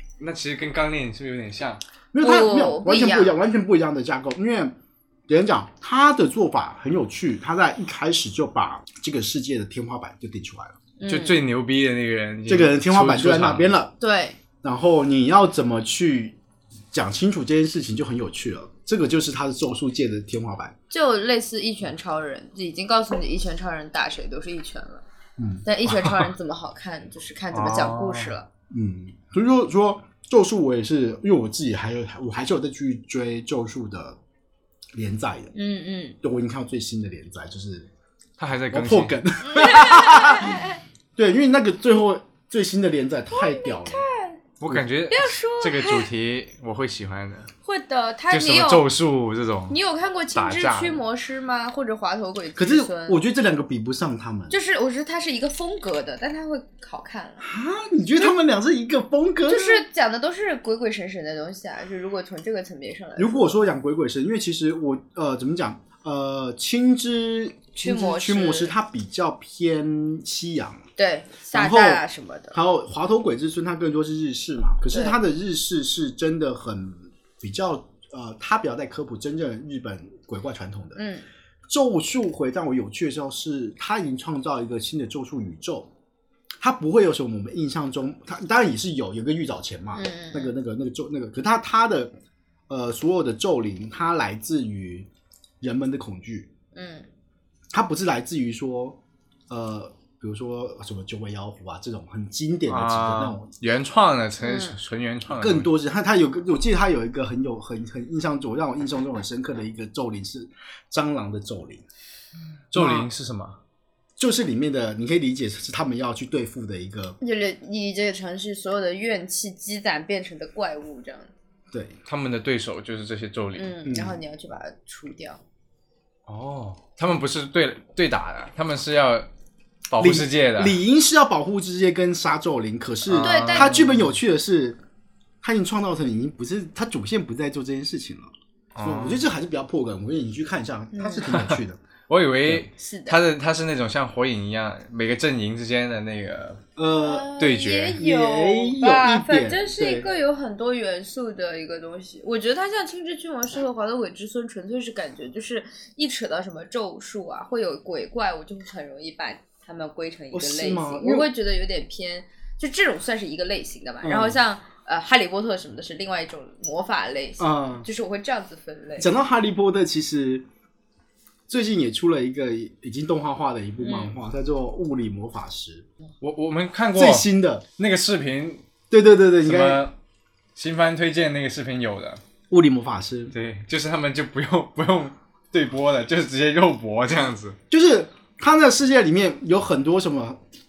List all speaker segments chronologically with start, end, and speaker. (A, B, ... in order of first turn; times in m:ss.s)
0:00.2-0:01.8 A
0:02.1-0:04.8 B
0:02.2-0:03.4 C
0:05.3-0:10.8 B
0:11.0-0:11.4 C
0:11.1-0:13.7 A
0:12.5-0:13.9 B
0:14.0-0:14.4 C
0:14.6-0:16.4 B
0:16.9-0:20.8 B
0:20.9-0:25.0 C
0:25.4-0:25.7 B
0:25.6-0:28.5 C
0:27.5-0:28.4 A
0:28.7-0:34.2 B
0:35.0-0:35.5 B
0:35.6-0:36.2 C
0:36.2-0:37.9 B
0:38.4-0:39.2 A
0:38.7-0:40.6 B
0:39.4-0:40.8 C
0:41.2-0:44.0 B
0:43.3-0:44.4 C
0:44.6-0:47.5 A
0:45.1-0:46.1 C
0:47.6-0:48.9 C
0:48.3-0:49.8 A
0:49.7-0:53.2 C
0:50.3-0:51.0 A
0:52.6-0:54.6 B
0:54.5-0:57.5 C
0:57.4-0:59.8 B
0:59.5-1:03.7 C
1:03.2-1:10.8 B
1:07.8-1:08.7 C
1:11.0-1:12.6 C
1:11.5-1:21.0 B
1:14.9-1:15.2 C
1:21.0-1:21.2 C
1:21.7-1:25.9 B
1:26.6-1:32.1 B
1:30.0-1:30.5 C
1:32.7-1:35.1 B
1:35.6-1:36.5 B
1:36.8-1:37.1 C
1:37.7-1:39.0 B
1:39.5-1:43.5 B
1:42.7-1:45.7 A
1:44.4-1:44.8 C
1:45.3-1:51.8 B
1:52.7-1:53.6 A
1:52.8-1:53.1 B
1:54.2-1:57.2 B
1:57.2-2:01.3 C
2:01.7-2:02.0 B
2:02.1-2:03.8 A
2:03.6-2:05.4 C
2:03.8-2:04.2 B
2:06.3-2:09.3 A
2:09.9-2:10.8 A
2:10.0-2:14.8 B
2:13.1-2:14.0 A
2:13.2-2:13.9 C
2:15.4-2:18.3 B
2:18.8-2:19.2 A
2:18.8-2:21.8 B
2:20.9-2:21.2 C
2:21.3-2:26.6 A
2:22.8-2:23.2 C
2:26.8-2:27.3 B
2:27.0-2:49.1 C
2:27.4-2:28.0 A
2:28.0-2:30.1 B
2:40.3-2:41.3 B
2:44.0-2:44.4 B
2:47.4-2:47.9 B
2:49.0-2:50.4 B
2:51.5-2:55.9 B
2:53.8-2:54.1 C
2:56.2-2:57.3 A
2:57.0-2:57.6 B
2:57.8-2:58.6 A
2:58.9-2:59.8 B
2:59.4-2:59.9 A
3:00.6-3:02.2 A
3:02.5-3:03.3 B
3:03.3-3:07.6 A
3:07.7-3:10.4 B